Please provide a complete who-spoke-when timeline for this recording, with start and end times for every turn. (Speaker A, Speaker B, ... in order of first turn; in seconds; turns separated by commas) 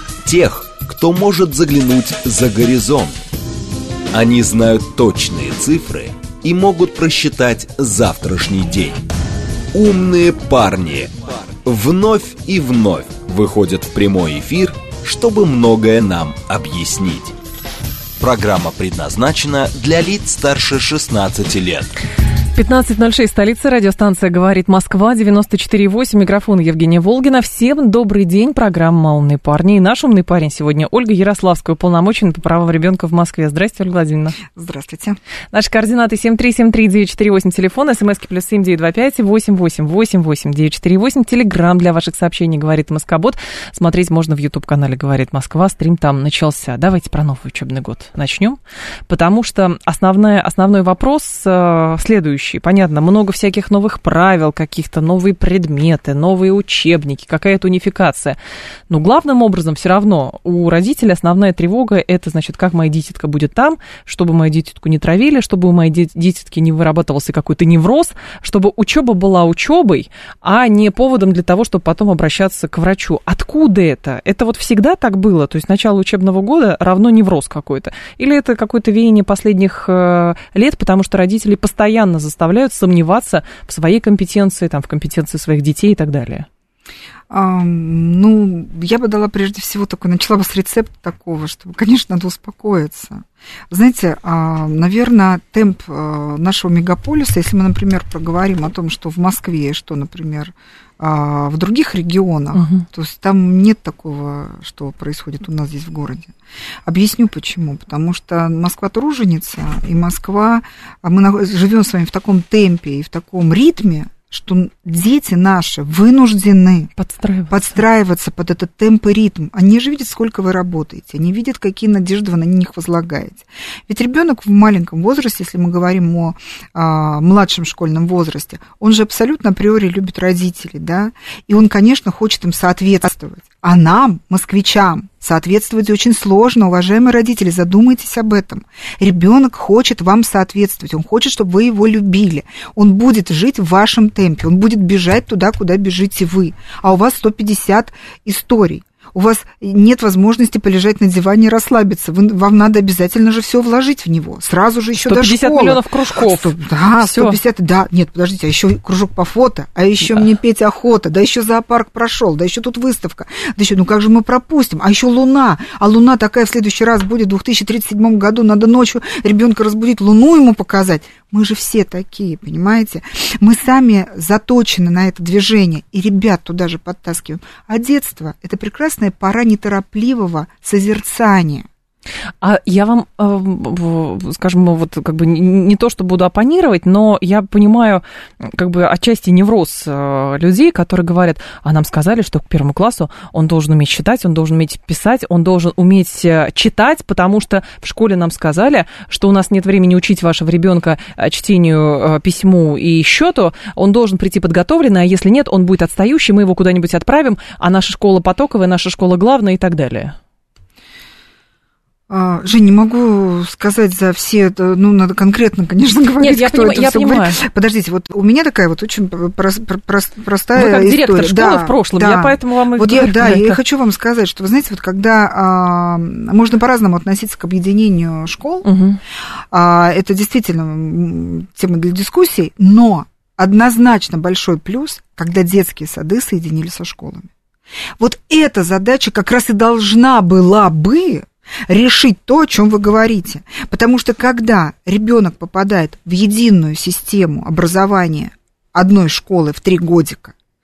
Speaker A: 0.2-3.1, Speaker A: 4.1-9.0, Speaker A: 9.7-17.4, Speaker A: 18.2-21.9, Speaker B: 22.5-34.4, Speaker C: 34.5-35.2, Speaker B: 35.5-58.4, Speaker B: 58.9-86.5, Speaker C: 87.3-106.3, Speaker B: 102.5-102.8, Speaker C: 106.9-116.9, Speaker B: 117.0-117.8, Speaker C: 117.5-181.7, Speaker B: 155.0-157.4, Speaker B: 182.4-210.2, Speaker C: 212.1-228.7, Speaker B: 216.2-217.4, Speaker B: 220.5-223.6, Speaker B: 228.6-229.0, Speaker C: 229.5-237.3, Speaker C: 238.0-250.3